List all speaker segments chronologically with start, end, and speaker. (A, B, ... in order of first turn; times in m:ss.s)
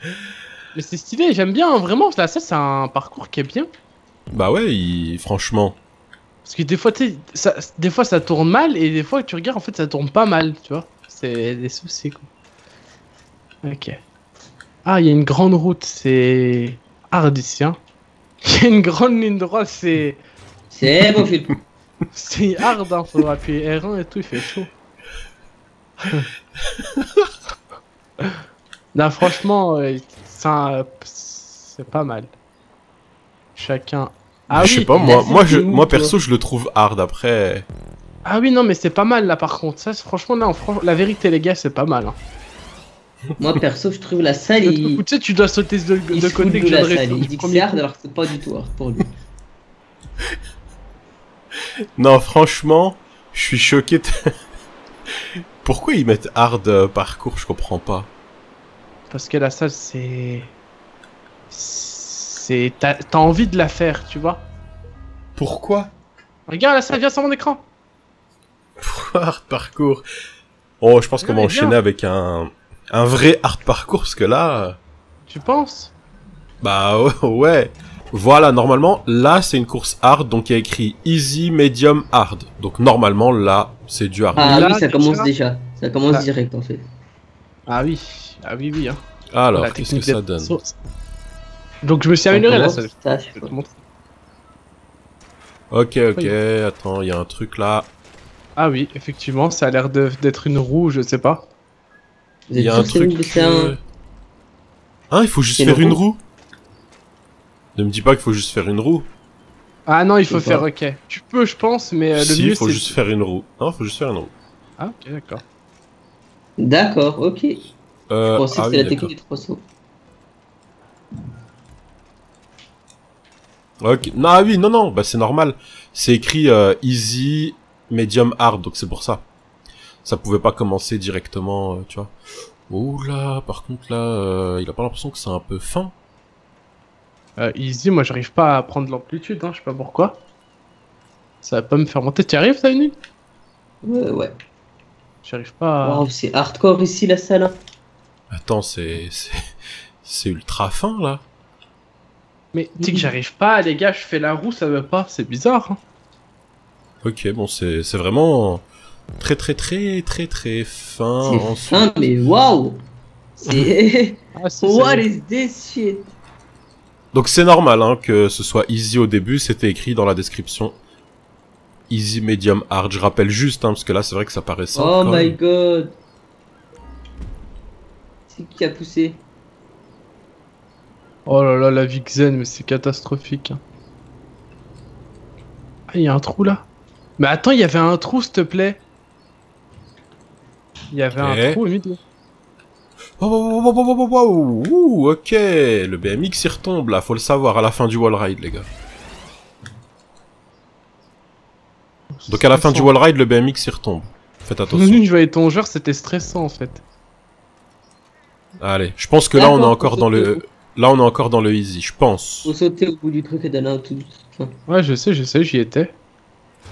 0:00.7-0:03.7 A
0:04.3-0:05.8 B
0:06.4-0:12.3 A
0:13.6-0:14.0 A
0:14.8-0:17.8 A
0:18.4-0:20.2 A
0:20.7-0:21.6 C
0:22.1-0:24.7 A
0:26.0-0:26.3 A
0:26.8-0:27.3 B
0:28.9-0:32.3 A
0:33.6-0:35.0 A
0:34.5-0:37.6 B
0:35.0-0:36.1 C
0:38.2-0:42.2 A
0:43.4-0:45.0 C
0:44.6-0:47.8 A
0:46.1-0:49.1 C
0:52.0-0:54.3 B
0:55.6-0:58.1 B
0:59.1-1:00.5 A
1:01.5-1:04.4 A
1:05.4-1:05.9 B
1:06.5-1:07.6 A
1:08.8-1:10.0 B
1:10.8-1:14.8 B
1:11.2-1:11.8 A
1:15.3-1:15.9 A
1:16.6-1:24.6 B
1:24.3-1:26.8 C
1:24.4-1:25.3 A
1:27.7-1:29.0 A
1:29.3-1:30.6 B
1:29.6-1:30.7 A
1:31.8-1:33.8 A
1:32.3-1:33.5 C
1:35.7-1:37.9 B
1:38.6-1:41.4 A
1:42.5-1:43.7 C
1:42.6-1:43.8 B
1:45.1-1:46.2 B
1:45.6-1:46.0 C
1:47.7-1:49.1 B
1:49.8-1:52.9 A
1:50.3-1:50.7 C
1:52.1-1:54.3 B
1:54.8-1:55.4 A
1:56.6-1:57.6 C
1:58.1-1:59.1 B
1:58.4-1:59.6 C
2:03.8-2:09.2 B
2:10.0-2:12.1 B
2:12.7-2:15.9 B
2:17.4-2:20.2 A
2:21.4-2:22.9 A
2:23.8-2:24.3 C
2:25.2-2:26.1 A
2:25.8-2:27.6 C
2:28.3-2:29.4 B
2:30.0-2:31.2 B
2:32.5-2:35.8 A
2:32.8-2:33.1 C
2:37.0-2:38.6 B
2:39.2-2:42.1 B
2:41.2-2:42.8 C
2:43.4-2:46.1 C
2:44.4-2:45.1 A
2:47.1-2:50.8 B
2:51.9-2:55.3 B
2:54.7-2:55.9 C
2:58.3-2:59.2 C
3:01.3-3:03.6 A
3:05.9-3:06.6 A
3:07.2-3:08.8 A
3:10.9-3:12.0 A
3:11.2-3:11.6 B
3:13.2-3:18.7 B
3:22.1-3:22.9 A
3:22.3-3:25.0 B
3:24.7-3:26.8 A
3:28.6-3:32.5 B
3:29.3-3:30.4 C
3:32.4-3:34.5 C
3:34.7-3:35.9 A